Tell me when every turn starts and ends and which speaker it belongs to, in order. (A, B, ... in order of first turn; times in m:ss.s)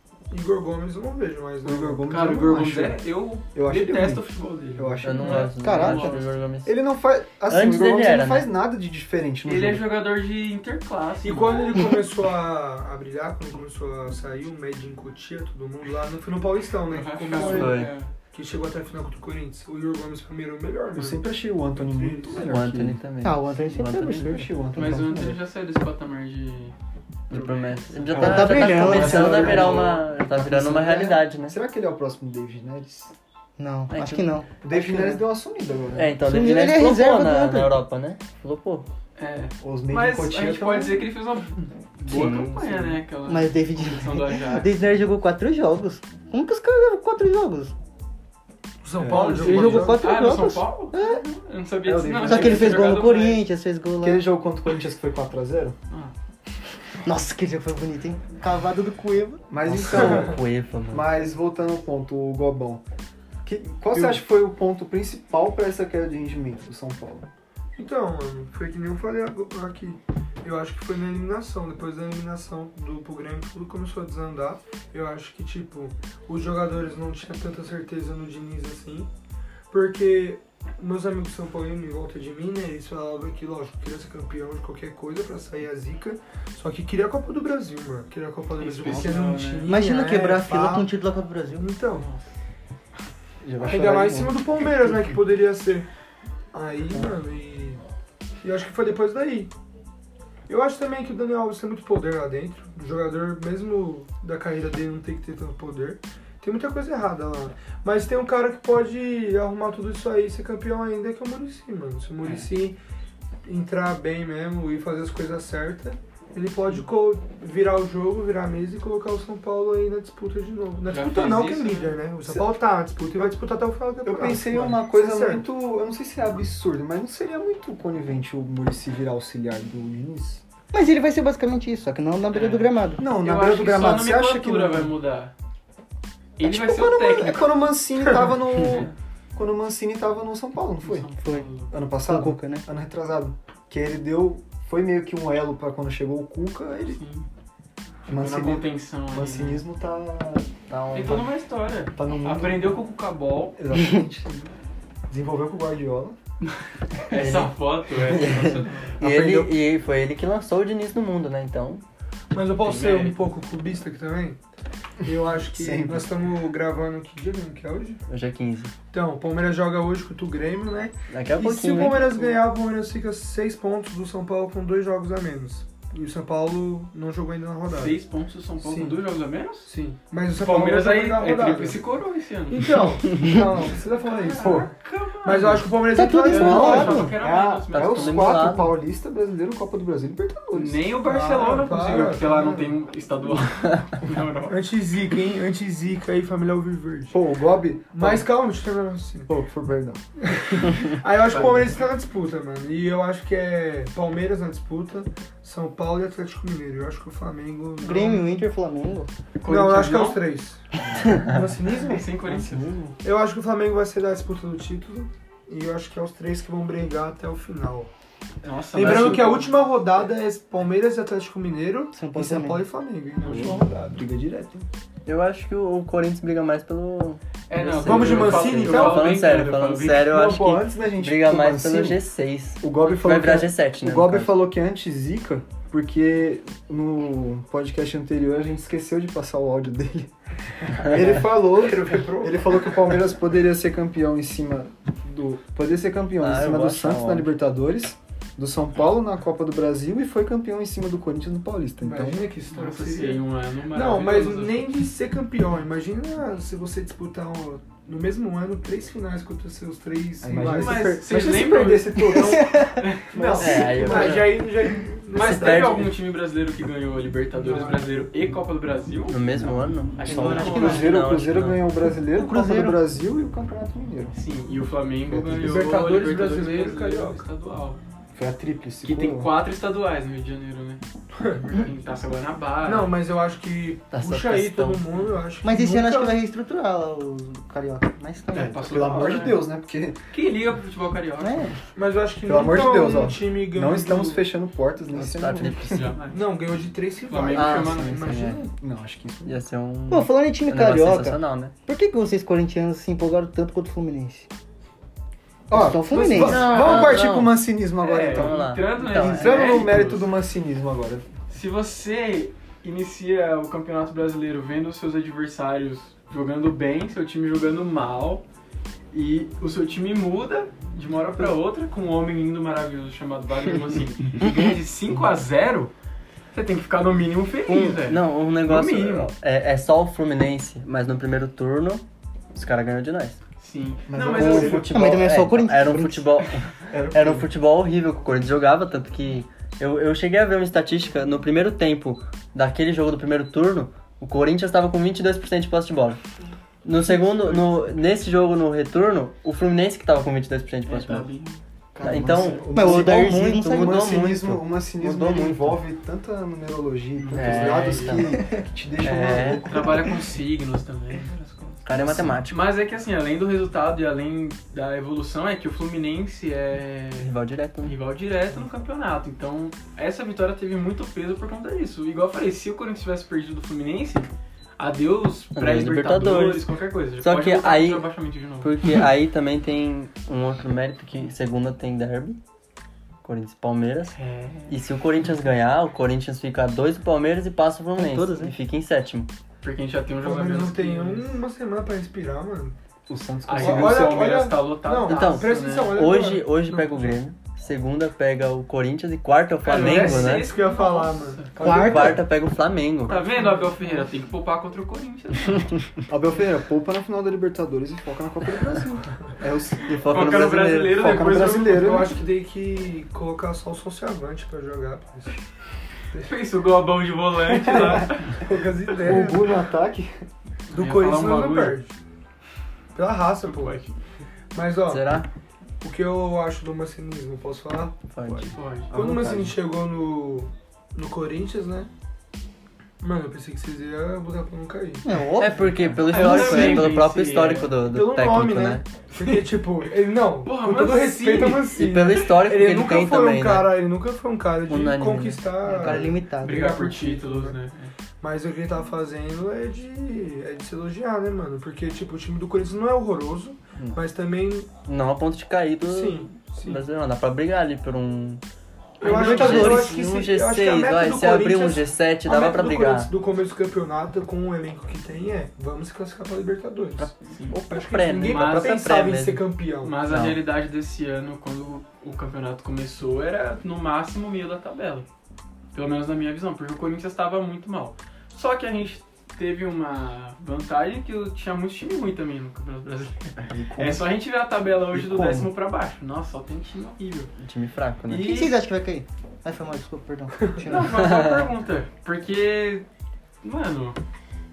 0:00.3-0:02.1 A
0:01.6-0:04.2 B
0:02.1-0:06.3 C
0:04.8-0:05.5 B
0:05.0-0:06.8 D
0:05.2-0:05.5 A
0:05.6-0:06.2 E
0:06.6-0:09.9 B
0:07.5-0:08.5 D
0:09.4-0:11.8 C
0:11.2-0:21.2 A
0:16.9-0:18.1 C
0:17.3-0:17.9 D
0:20.9-0:23.0 B
0:21.8-0:22.5 A
0:22.5-0:24.3 D
0:23.2-0:24.5 E
0:24.1-0:25.4 B
0:24.7-0:26.8 C
0:27.3-0:31.6 D
0:27.3-0:29.8 C
0:28.1-0:33.1 B
0:28.2-0:29.8 E
0:33.6-0:35.2 E
0:33.9-0:34.4 D
0:34.6-0:36.2 B
0:36.0-0:38.9 D
0:36.2-0:37.8 E
0:39.2-0:44.8 C
0:39.6-0:41.0 B
0:42.1-0:43.0 D
0:43.3-0:47.7 E
0:48.8-0:50.0 A
0:49.0-0:49.5 B
0:49.1-0:53.4 C
0:49.3-0:51.2 E
0:51.8-0:53.0 B
0:52.2-0:54.2 E
0:54.0-0:55.8 B
0:57.0-0:59.4 E
0:59.5-1:02.8 B
0:59.6-1:01.1 D
1:03.4-1:07.3 B
1:07.8-1:19.1 A
1:19.7-1:30.9 A
1:28.6-1:29.8 C
1:29.7-1:31.7 E
1:31.6-1:32.1 A
1:31.9-1:32.3 C
1:33.4-1:34.4 B
1:33.6-1:35.9 A
1:36.5-1:37.8 A
1:38.4-1:39.5 A
1:40.5-1:52.8 A
1:53.4-2:05.4 A
2:00.9-2:02.0 C
2:02.2-2:02.5 B
2:04.0-2:10.4 B
2:10.7-2:13.0 E
2:12.3-2:15.3 C
2:13.0-2:14.9 B
2:16.4-2:17.5 C
2:16.4-2:21.1 B
2:20.8-2:21.7 C
2:21.2-2:21.5 E
2:21.7-2:27.0 B
2:22.1-2:22.7 E
2:26.9-2:27.3 C
2:28.1-2:29.6 C
2:28.1-2:31.3 B
2:30.9-2:33.6 C
2:32.0-2:32.8 B
2:33.6-2:34.5 B
2:35.1-2:36.1 B
2:37.1-2:39.0 C
2:37.1-2:41.8 D
2:39.0-2:39.5 B
2:42.3-2:44.4 A
2:42.6-2:43.2 C
2:45.0-2:48.0 A
2:45.5-2:46.1 B
2:48.1-2:48.7 D
2:48.9-2:58.0 A
2:51.1-2:52.3 D
2:57.7-2:59.7 C
2:58.6-2:59.0 A
2:59.7-3:01.8 A
3:00.3-3:02.8 C
3:02.5-3:04.7 A
3:03.9-3:05.8 C
3:04.4-3:04.7 B
3:05.2-3:07.2 A
3:05.9-3:07.1 E
3:06.3-3:08.5 C
3:06.3-3:10.8 B
3:07.7-3:08.7 D
3:10.5-3:14.6 C
3:11.0-3:12.8 A
3:14.5-3:17.2 A
3:17.1-3:18.3 B
3:17.9-3:19.3 A
3:19.3-3:20.0 B
3:20.2-3:28.5 A
3:21.3-3:21.8 C
3:27.8-3:29.1 E
3:29.4-3:30.2 C
3:29.5-3:32.1 A
3:30.9-3:31.2 B
3:31.9-3:32.6 C
3:32.3-3:33.0 B
3:33.0-3:37.9 A
3:38.4-3:39.5 C
3:38.7-3:44.0 A
3:38.8-3:39.4 D
3:41.9-3:42.6 E
3:43.2-3:43.6 C
3:43.3-3:44.7 B
3:45.1-3:54.3 D
3:47.5-3:50.1 C
3:47.8-3:49.3 A
3:50.0-3:52.0 B
3:52.6-4:00.1 B
4:00.6-4:12.3 B
4:01.0-4:02.5 A
4:06.2-4:07.3 D
4:11.8-4:21.1 A
4:12.5-4:14.7 C
4:20.2-4:24.3 B
4:20.4-4:23.1 C
4:23.1-4:25.9 A
4:23.4-4:24.5 D
4:25.1-4:29.2 C
4:25.2-4:25.9 D
4:27.4-4:27.8 A
4:29.1-4:31.7 D
4:29.4-4:34.1 B
4:30.0-4:31.0 C
4:30.1-4:30.9 E
4:32.1-4:32.8 E
4:34.1-4:37.8 C
4:35.1-4:35.7 B
4:35.4-4:37.2 A
4:38.1-4:39.3 B
4:38.8-4:40.8 C
4:41.2-4:41.5 A
4:41.4-4:42.9 C
4:42.6-4:46.1 A
4:43.9-4:44.9 D
4:45.4-4:48.7 E
4:48.3-4:49.5 C
4:48.5-4:50.0 B
4:50.1-4:51.5 C
4:51.2-4:51.6 E
4:51.8-4:54.2 A
4:52.2-4:55.9 B
4:54.9-4:56.0 D
4:55.7-4:56.2 C
4:56.1-4:58.5 A
4:57.1-4:58.1 C
4:57.3-4:58.5 D
4:58.6-4:59.4 B
4:59.3-5:01.5 D
4:59.9-5:04.3 E
5:05.5-5:11.1 B
5:05.5-5:06.5 E
5:05.9-5:06.6 A
5:06.2-5:07.4 D
5:06.6-5:07.0 C
5:07.8-5:10.1 C
5:08.0-5:09.6 D
5:11.3-5:18.2 C
5:18.9-5:25.7 C
5:26.3-5:29.1 C
5:27.5-5:31.8 D
5:32.4-5:33.2 D
5:33.4-5:34.7 C
5:33.9-5:34.7 B
5:34.0-5:46.0 D
5:34.7-5:36.1 E
5:36.7-5:37.3 B
5:46.6-5:51.1 D
5:50.7-5:51.4 C
5:51.8-5:59.8 B
5:51.8-5:55.6 D
5:52.0-5:52.4 C
5:52.5-5:53.8 E
5:57.0-5:58.1 C
5:57.1-5:58.2 D
5:58.8-5:59.7 D
5:59.0-6:07.1 C
6:01.6-6:02.5 D
6:07.0-6:07.8 D
6:07.6-6:18.6 C
6:15.4-6:16.5 D
6:17.0-6:17.9 D
6:18.4-6:22.2 D
6:23.0-6:24.0 D
6:24.0-6:24.6 C
6:24.5-6:29.1 D
6:27.8-6:28.4 E
6:29.4-6:31.2 C
6:30.0-6:32.6 A
6:32.9-6:34.2 B
6:33.3-6:35.8 C
6:33.4-6:37.0 A
6:34.8-6:40.4 D
6:39.4-6:41.9 C
6:39.5-6:41.4 A
6:41.4-6:43.0 D
6:41.4-6:42.0 E
6:42.9-6:45.6 C
6:43.1-6:43.9 A
6:45.9-6:50.0 B
6:49.7-6:50.9 D
6:49.9-6:51.8 C
6:50.7-6:52.0 B
6:50.9-6:55.2 A
6:56.0-6:58.2 C
6:57.4-6:59.3 A
6:58.8-7:00.0 B
7:00.5-7:01.6 C
7:00.5-7:01.7 A
7:02.8-7:03.6 A
7:03.2-7:03.8 C
7:04.3-7:05.0 A
7:04.7-7:05.1 D
7:05.6-7:07.8 A
7:07.9-7:08.4 D
7:08.2-7:08.7 C
7:08.7-7:09.4 B
7:08.7-7:11.7 A
7:12.8-7:14.8 A
7:14.8-7:16.2 E
7:15.2-7:18.7 D
7:15.8-7:17.6 C
7:17.6-7:27.4 A
7:20.2-7:21.6 C
7:21.5-7:23.6 D
7:24.5-7:26.0 D
7:25.6-7:26.6 E
7:26.2-7:27.7 C
7:28.0-7:34.5 A
7:34.7-7:38.2 D
7:35.6-7:36.6 A
7:38.8-7:42.9 D
7:38.8-7:46.9 A
7:38.8-7:39.7 C
7:46.8-7:49.2 D
7:47.1-7:47.4 C
7:47.5-7:49.8 A
7:48.0-7:48.6 C
7:49.6-7:54.9 C
7:49.8-7:50.2 D
7:55.5-8:07.1 C
8:03.2-8:03.9 B
8:04.7-8:05.3 B
8:07.2-8:08.3 D
8:07.9-8:08.4 C
8:07.9-8:10.8 E
8:10.4-8:12.6 C
8:10.8-8:11.2 D
8:13.2-8:13.8 C